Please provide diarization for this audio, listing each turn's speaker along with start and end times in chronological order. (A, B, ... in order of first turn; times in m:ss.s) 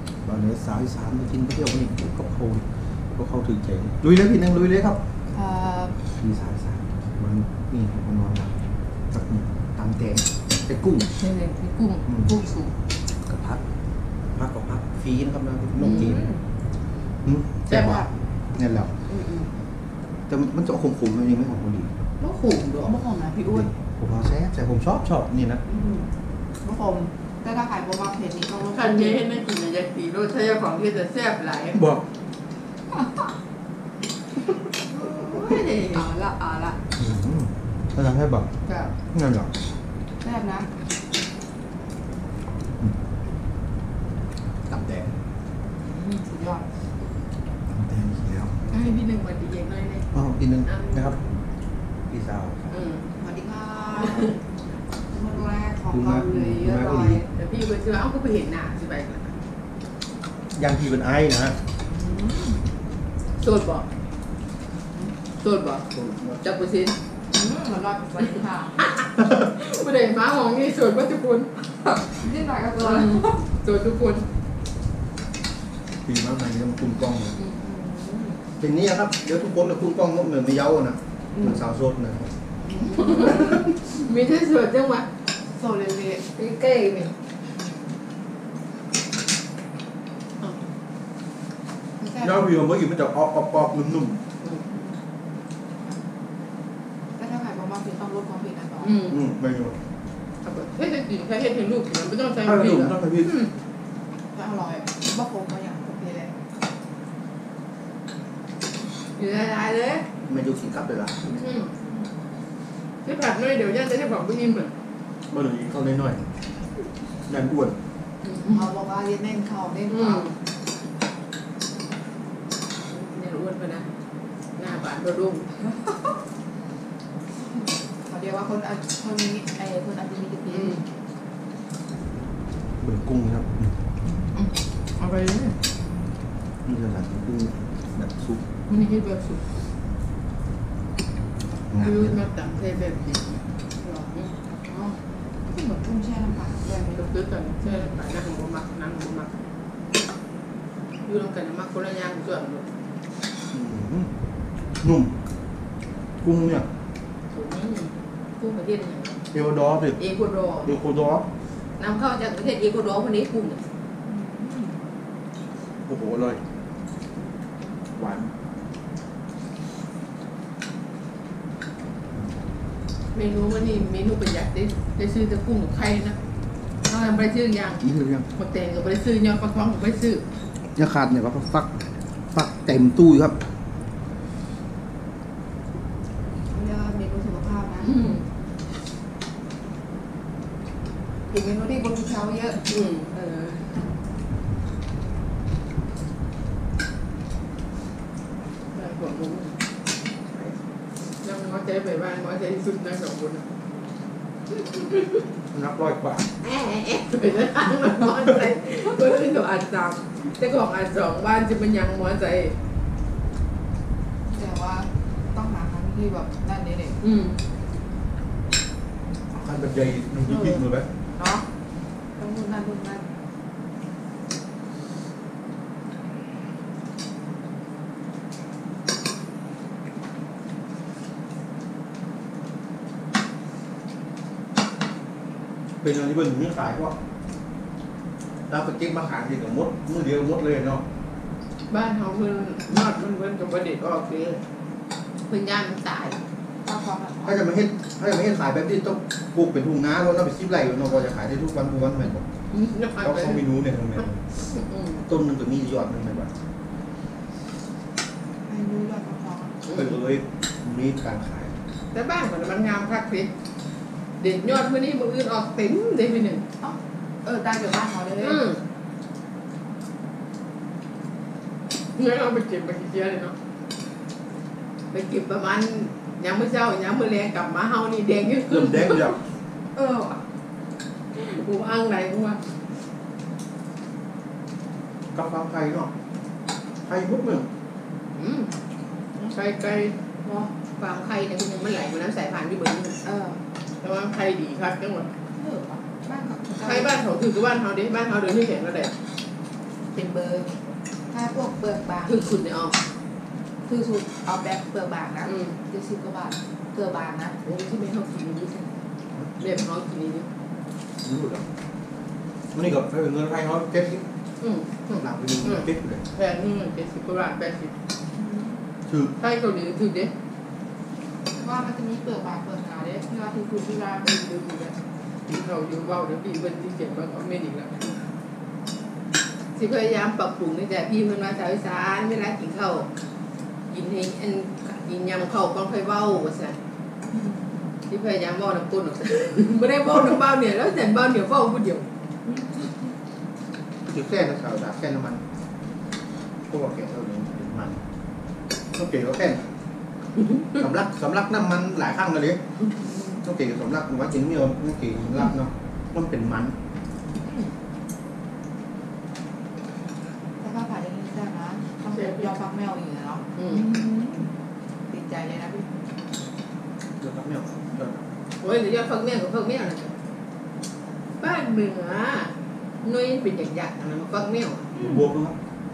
0:00.2-0:05.0 A
0:05.3-0:06.0 B
0:06.2-0:08.5 A
0:09.1-0:11.2 A
0:11.2-0:12.7 B
0:13.2-0:13.6 A
0:14.4-0:16.3 A
0:15.8-0:16.4 B
0:15.8-0:16.1 C
0:17.2-0:18.9 A
0:17.6-0:18.0 C
0:17.7-0:18.1 B
0:19.1-0:19.5 B
0:20.3-0:21.9 A
0:22.2-0:23.7 B
0:23.5-0:25.6 A
0:25.7-0:26.1 B
0:26.6-0:29.2 B
0:28.7-0:31.8 C
0:31.7-0:32.0 A
0:34.9-0:36.1 C
0:35.1-0:36.8 B
0:37.0-0:38.5 A
0:39.1-0:39.5 A
0:40.2-0:40.7 B
0:44.7-0:45.1 A
0:45.8-0:46.6 B
0:47.7-0:48.6 A
0:48.7-0:50.1 C
0:50.1-0:51.2 A
0:50.6-0:51.2 C
0:52.1-0:52.8 A
0:52.7-0:53.0 C
0:53.2-0:54.4 B
0:54.0-0:54.3 A
0:55.1-0:57.3 B
0:55.9-0:57.2 A
0:57.3-0:59.3 C
1:00.5-1:01.6 A
1:01.9-1:02.6 B
1:03.4-1:03.9 C
1:05.4-1:05.8 C
1:05.9-1:06.4 A
1:06.4-1:07.0 C
1:07.3-1:08.8 B
1:08.8-1:11.6 C
1:12.0-1:13.4 B
1:12.8-1:14.2 C
1:16.0-1:17.4 A
1:17.4-1:18.4 B
1:18.6-1:22.3 A
1:22.6-1:23.6 B
1:22.9-1:25.1 C
1:25.6-1:26.4 B
1:26.4-1:27.1 C
1:32.0-1:32.4 B
1:32.2-1:34.2 A
1:34.7-1:34.9 B
1:37.2-1:39.0 B
1:38.8-1:39.2 C
1:39.0-1:39.8 A
1:40.4-1:43.5 C
1:42.4-1:43.4 A
1:44.3-1:46.3 B
1:49.2-1:50.0 C
1:50.3-1:51.4 A
1:51.3-1:51.7 C
1:53.0-1:54.7 C
1:55.3-1:56.2 A
1:57.3-1:57.8 A
1:58.2-1:58.7 C
1:58.5-2:00.4 B
1:59.9-2:00.3 C
2:02.9-2:03.9 C
2:04.6-2:05.5 C
2:08.1-2:10.8 B
2:10.5-2:10.8 C
2:12.8-2:13.8 A
2:14.4-2:15.6 C
2:16.6-2:18.4 A
2:18.7-2:19.4 C
2:21.7-2:22.2 A
2:21.7-2:23.4 C
2:23.8-2:27.1 B
2:26.7-2:29.4 C
2:31.1-2:32.7 C
2:33.5-2:34.2 A
2:34.8-2:35.2 A
2:36.2-2:36.7 A
2:37.3-2:39.2 C
2:39.3-2:40.0 A
2:40.0-2:40.8 C
2:40.6-2:41.2 A
2:41.8-2:43.6 C
2:44.1-2:44.8 B
2:45.9-2:46.4 A
2:48.0-2:48.3 A
2:53.1-2:56.2 C
2:56.8-2:57.8 C
2:57.8-2:58.3 A
2:58.3-3:00.2 C
3:00.8-3:03.4 A
3:06.5-3:08.2 B
3:07.8-3:08.2 C
3:11.3-3:13.9 B
3:12.7-3:13.1 C
3:18.8-3:19.6 C
3:21.2-3:23.4 C
3:24.8-3:25.2 C
3:25.5-3:26.3 A
3:26.4-3:32.6 C
3:34.3-3:37.0 B
3:37.0-3:37.4 C
3:39.3-3:40.9 A
3:40.3-3:40.6 B
3:41.2-3:41.4 B
3:42.2-3:43.0 B
3:55.8-3:57.0 A
3:58.5-4:00.8 A
4:01.7-4:04.4 C
4:05.3-4:06.2 C
4:06.6-4:07.3 B
4:07.2-4:12.2 A
4:12.5-4:13.4 C
4:13.0-4:14.2 A
4:14.3-4:15.0 C
4:15.0-4:16.3 A
4:18.5-4:19.6 B
4:19.7-4:21.6 A
4:19.7-4:19.9 C
4:21.9-4:23.3 C
4:24.2-4:26.4 C
4:26.6-4:28.5 B
4:28.2-4:28.6 C
4:32.0-4:33.4 C
4:34.9-4:39.1 C
4:38.5-4:39.2 A
4:39.8-4:40.2 B
4:41.1-4:42.5 C
4:45.1-4:45.9 A
4:46.9-4:47.5 A
4:48.2-4:48.5 C
4:49.2-4:50.0 C
4:50.2-4:50.5 B
4:50.8-4:53.0 C
4:53.0-4:53.4 B
4:53.8-4:55.1 C
4:55.4-4:57.0 B
4:56.6-4:58.9 C
4:59.9-5:00.5 B
5:01.1-5:02.2 B
5:02.0-5:02.8 C
5:03.6-5:07.4 B
5:05.3-5:05.6 C
5:07.4-5:08.7 C
5:09.4-5:10.3 C
5:11.0-5:11.4 A
5:12.5-5:14.0 A
5:14.4-5:17.7 C
5:15.0-5:16.0 A
5:18.2-5:18.6 B
5:18.9-5:19.1 A
5:19.2-5:20.1 C
5:21.4-5:24.8 B
5:25.3-5:28.0 C
5:29.6-5:32.9 C
5:33.7-5:36.6 C
5:37.1-5:37.5 B
5:37.9-5:41.9 C
5:42.4-5:42.7 B
5:43.9-5:45.2 A
5:46.5-5:47.8 A
5:48.7-5:49.5 A
5:50.5-5:52.4 A
5:53.1-5:56.6 A
6:00.4-6:04.3 B
6:01.9-6:02.3 C
6:03.4-6:03.6 C
6:04.9-6:05.7 B
6:07.0-6:08.1 A
6:08.4-6:09.9 C
6:11.2-6:12.3 C
6:12.8-6:14.7 C
6:14.8-6:15.4 A